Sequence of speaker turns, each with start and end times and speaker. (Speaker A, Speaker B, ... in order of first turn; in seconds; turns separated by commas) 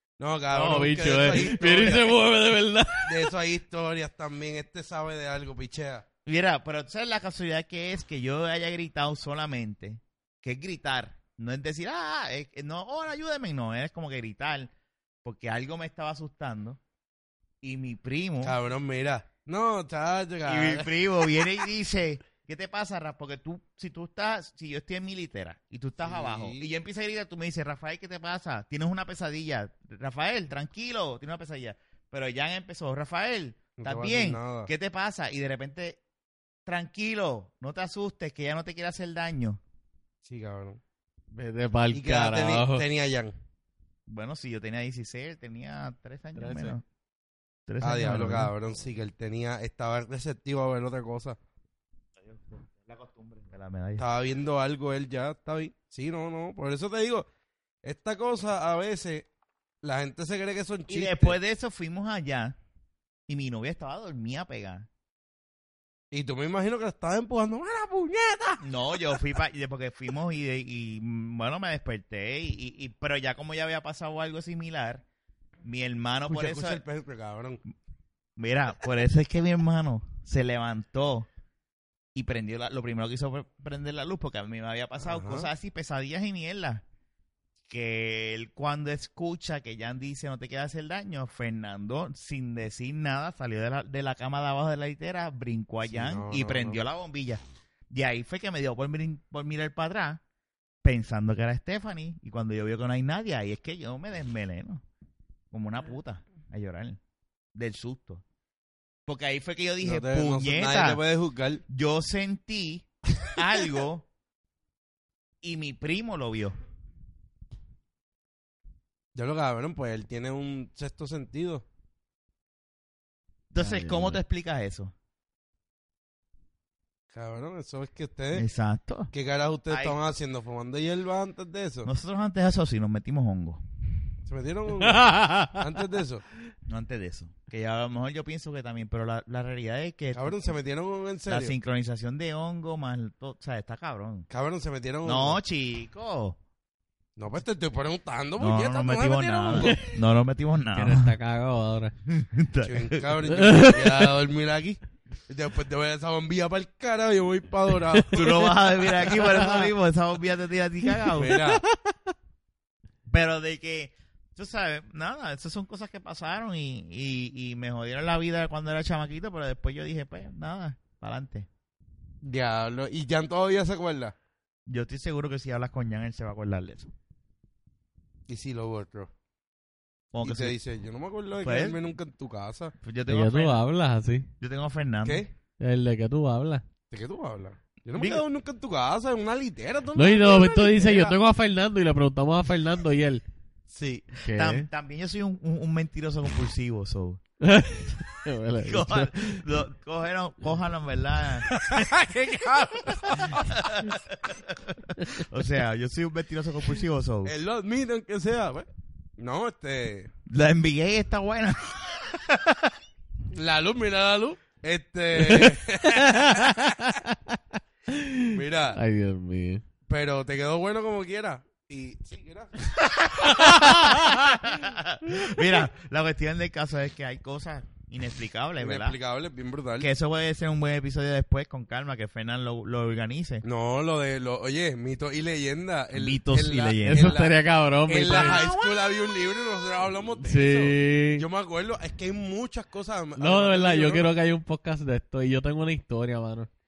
Speaker A: 0.2-2.1, Speaker B: 0.5-3.3, Speaker A: 3.0-6.0, Speaker C: 6.2-14.7, Speaker C: 15.2-16.8, Speaker C: 17.6-18.6, Speaker A: 18.4-21.1, Speaker C: 20.4-36.0, Speaker A: 26.0-26.7, Speaker A: 33.8-34.7, Speaker C: 36.6-39.6, Speaker A: 40.2-40.8, Speaker B: 41.3-42.8, Speaker A: 41.9-43.3, Speaker C: 44.1-46.8, Speaker B: 46.4-46.8, Speaker C: 47.7-48.5, Speaker A: 47.8-51.4, Speaker C: 52.2-54.0, Speaker A: 54.0-57.2, Speaker A: 57.8-59.3, Speaker A: 59.8-61.4, Speaker C: 60.9-62.5, Speaker C: 63.3-64.9, Speaker A: 66.1-68.6, Speaker C: 68.6-75.0, Speaker C: 75.6-76.8, Speaker A: 76.3-77.6, Speaker C: 78.4-81.3, Speaker C: 82.1-86.8, Speaker A: 85.0-85.5, Speaker C: 87.7-100.2, Speaker A: 95.9-96.8, Speaker C: 100.8-104.8, Speaker C: 105.5-107.0, Speaker C: 107.5-108.2, Speaker C: 109.1-111.0, Speaker A: 109.8-111.6, Speaker C: 111.7-114.1, Speaker C: 115.4-116.5, Speaker A: 119.1-121.6, Speaker C: 123.5-124.9, Speaker B: 123.6-124.2, Speaker A: 127.1-128.4, Speaker C: 128.3-129.1, Speaker A: 129.1-131.9, Speaker C: 129.7-130.0, Speaker C: 131.8-133.6, Speaker A: 134.2-136.2, Speaker B: 134.8-135.6, Speaker C: 136.7-140.5, Speaker A: 140.1-141.5, Speaker C: 141.3-144.3, Speaker A: 144.3-145.4, Speaker C: 145.0-146.4, Speaker A: 147.2-149.8, Speaker C: 148.4-151.1, Speaker B: 149.5-149.8, Speaker B: 150.7-151.9, Speaker C: 152.1-153.2, Speaker A: 152.6-158.5, Speaker B: 153.3-154.1, Speaker B: 157.9-159.7, Speaker C: 158.1-161.4, Speaker B: 161.0-161.9, Speaker A: 161.1-161.6, Speaker C: 163.1-171.5, Speaker A: 172.2-174.1, Speaker C: 174.7-176.9, Speaker A: 178.3-179.1, Speaker C: 180.1-180.6, Speaker A: 180.2-182.7, Speaker C: 181.4-181.8, Speaker C: 182.8-183.6, Speaker B: 183.1-184.3, Speaker C: 184.4-185.2, Speaker A: 185.0-185.3, Speaker B: 185.6-186.6, Speaker A: 186.9-191.2, Speaker C: 187.9-188.2, Speaker B: 189.9-193.2, Speaker A: 193.7-194.1, Speaker B: 194.2-194.7, Speaker C: 194.3-197.2, Speaker B: 197.4-199.4, Speaker C: 198.6-201.8, Speaker A: 201.5-203.6, Speaker C: 203.1-207.3, Speaker A: 207.2-210.1, Speaker C: 210.3-212.7, Speaker A: 213.3-216.6, Speaker B: 215.2-219.6, Speaker A: 218.3-218.8, Speaker A: 219.9-222.8, Speaker C: 222.9-229.0, Speaker B: 223.3-224.3, Speaker A: 228.6-229.9, Speaker C: 229.8-233.4, Speaker A: 233.4-237.3, Speaker C: 235.9-237.2, Speaker B: 236.8-238.5, Speaker A: 237.9-244.1, Speaker C: 238.1-238.9, Speaker B: 240.2-241.2, Speaker B: 243.2-246.5